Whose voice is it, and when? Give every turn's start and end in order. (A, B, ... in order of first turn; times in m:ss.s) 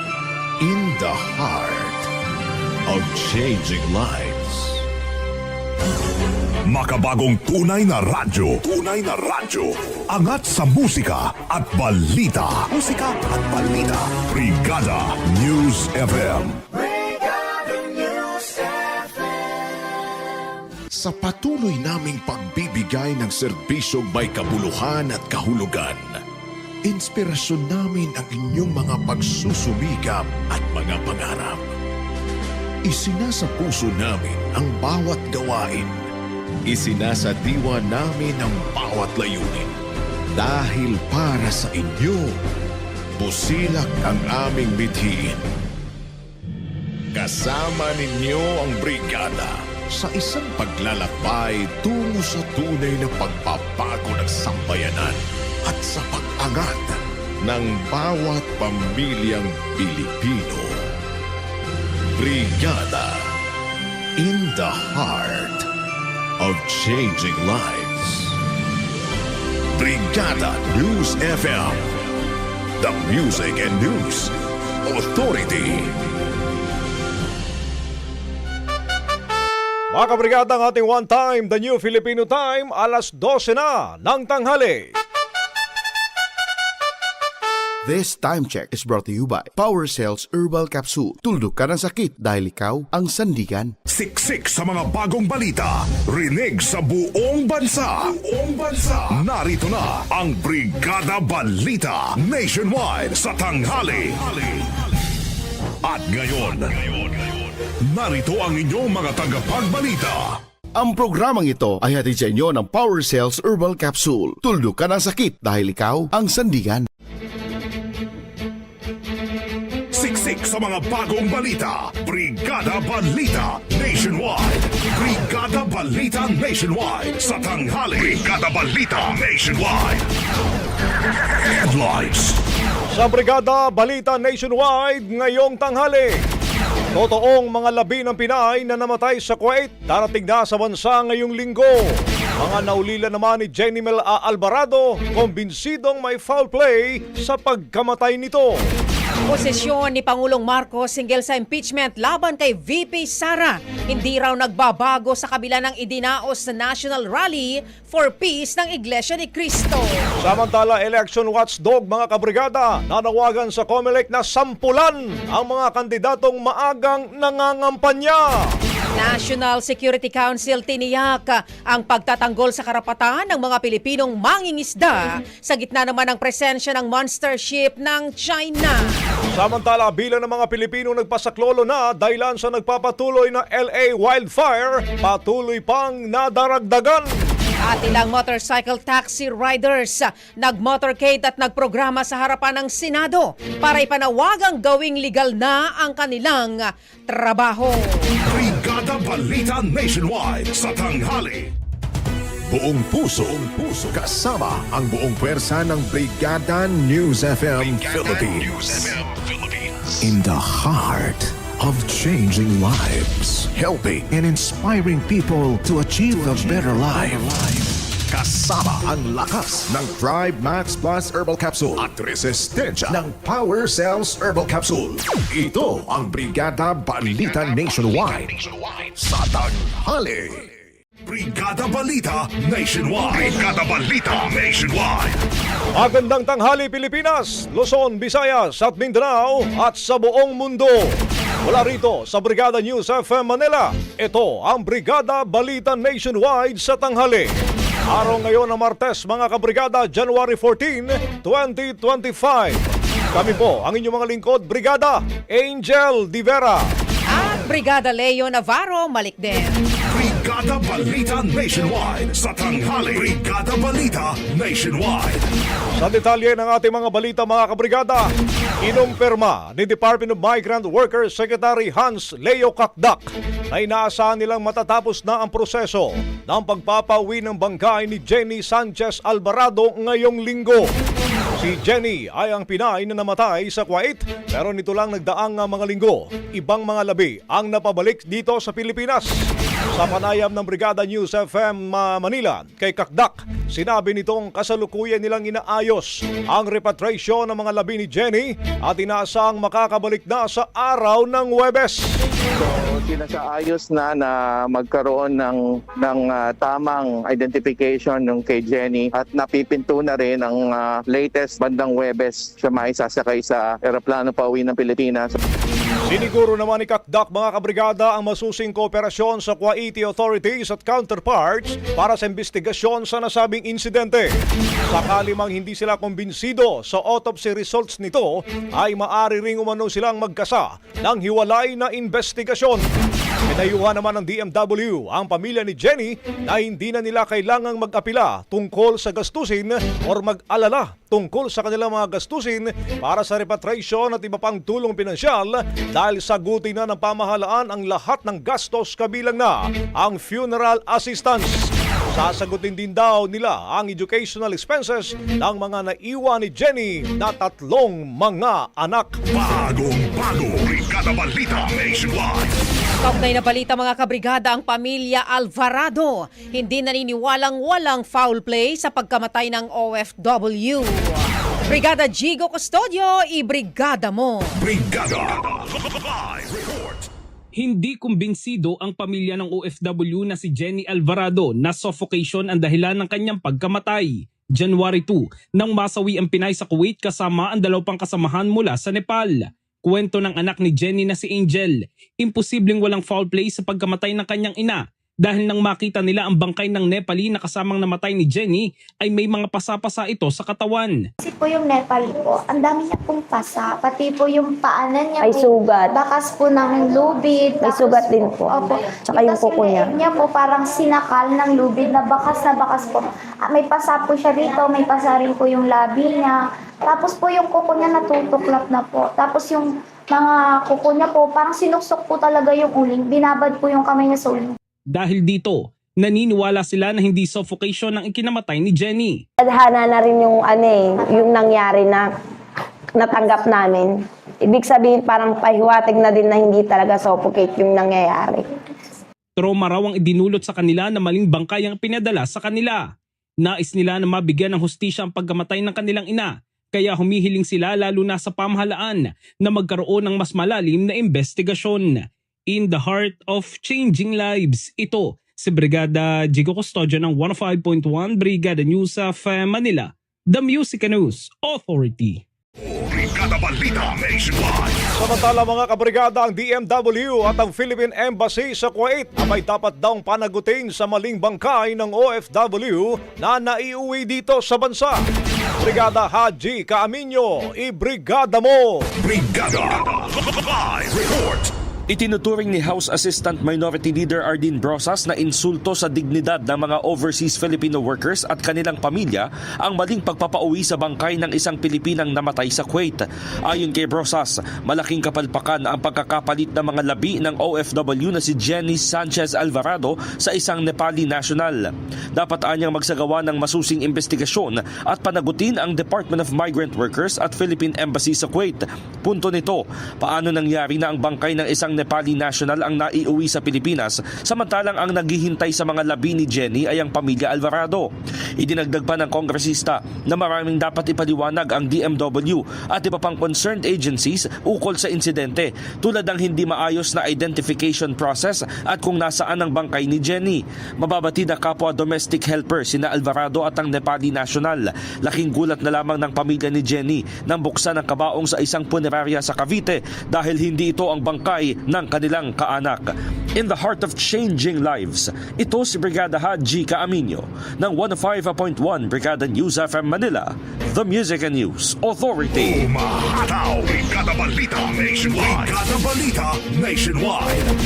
0:00.6-0:02.1 A
0:02.9-0:04.8 A
0:06.7-0:16.6 B
0:20.9-0:26.2 A
0:26.8-0:31.7 A
0:32.8-0:36.1 A
0:36.7-0:39.8 A
0:40.4-0:42.4 A
0:43.2-0:45.4 A
0:47.1-1:00.8 A
1:02.2-1:03.3 A
1:04.2-1:05.7 A
1:06.4-1:08.4 A
1:09.7-1:11.8 A
1:12.8-1:16.0 A
1:19.9-1:24.9 C
1:27.8-1:33.7 D
1:33.9-1:44.6 B
1:45.8-1:47.2 B
1:47.9-1:50.4 B
1:50.8-1:56.9 D
1:59.9-2:10.0 B
2:11.4-2:12.4 B
2:13.0-2:16.2 C
2:17.0-2:28.5 C
2:29.3-2:39.9 E
2:40.2-2:48.5 C
2:49.0-2:58.9 E
2:59.4-3:07.1 C
3:07.6-3:18.1 E
3:18.2-3:21.5 B
3:22.5-3:50.5 A
3:51.0-3:55.2 B
3:55.8-4:00.9 C
4:01.4-4:07.3 C
4:07.9-4:16.6 C
4:17.1-4:19.6 E
4:19.9-4:25.3 B
4:25.8-4:28.0 C
4:28.6-4:40.7 C
4:41.4-4:49.1 C
4:49.8-5:01.8 C
5:02.4-5:15.1 F
5:15.9-5:24.1 C
5:24.7-5:32.7 C
5:33.3-5:59.0 C
5:59.1-6:02.3 B
6:02.8-6:14.3 E
6:14.4-6:16.9 B
6:17.4-6:40.8 G
6:41.0-6:45.2 H
6:45.0-6:45.8 I
6:45.8-6:47.8 H
6:47.4-6:49.8 I
6:48.4-6:56.2 H
6:56.7-7:04.4 H
7:04.7-7:09.0 G
7:09.2-7:11.9 I
7:12.8-7:18.3 I
7:19.2-7:22.7 G
7:23.2-7:42.0 G
7:42.4-7:44.7 B
7:44.8-7:54.8 C
7:55.4-7:58.7 C
7:58.8-8:01.3 B
8:01.7-8:21.4 J
8:22.0-9:12.5 J
9:12.1-9:17.3 B